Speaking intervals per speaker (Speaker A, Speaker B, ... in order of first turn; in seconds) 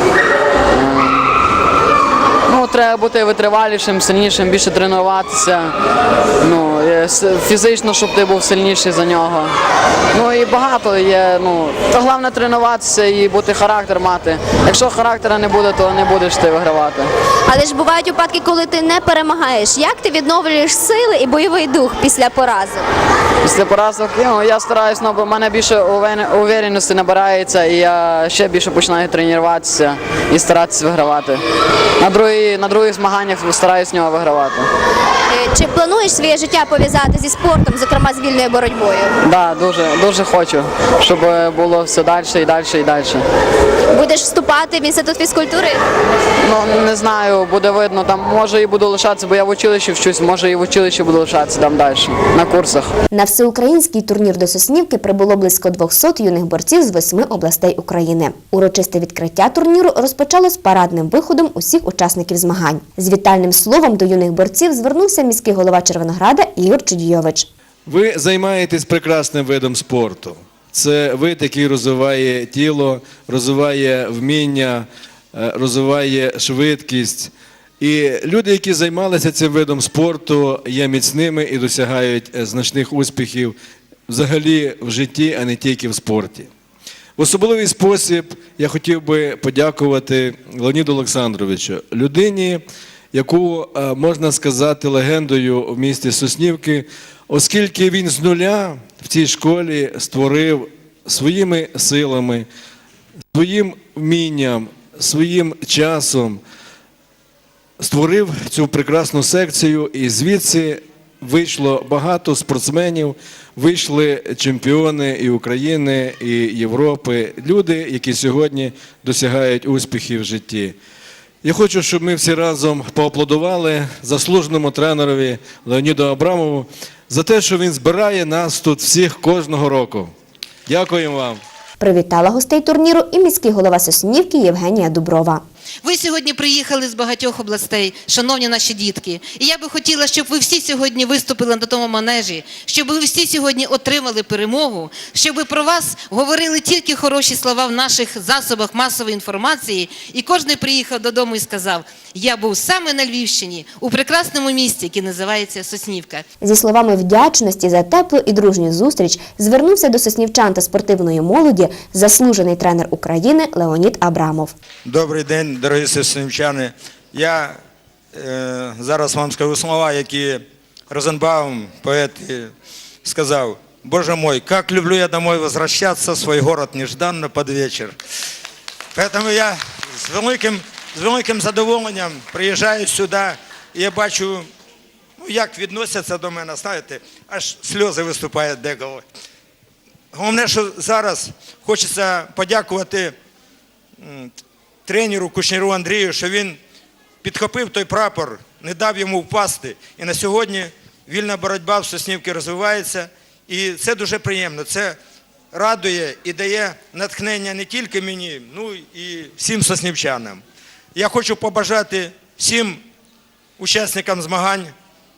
Speaker A: 0.7-1.3, 2.5-5.7, 6.4-9.5, 10.1-17.1, 23.4-31.4, 32.0-34.7, 39.2-43.2, 46.4-52.9
Speaker B: 17.4-22.9, 35.3-39.2, 43.9-45.8
Speaker C: 53.1-67.5, 131.8-135.4, 156.4-164.5
Speaker D: 67.8-83.5, 84.1-86.5, 87.2-102.5, 103.3-106.4, 107.8-120.7, 121.4-130.1, 130.7-131.4
Speaker E: 135.8-156.2
Speaker F: 164.8-167.6, 168.1-172.5, 173.0-177.9, 178.9-184.5, 185.2-189.0, 190.1-193.1, 194.0-194.3, 194.9-196.6, 197.2-205.0, 205.5-210.4, 210.9-212.8, 213.6-214.7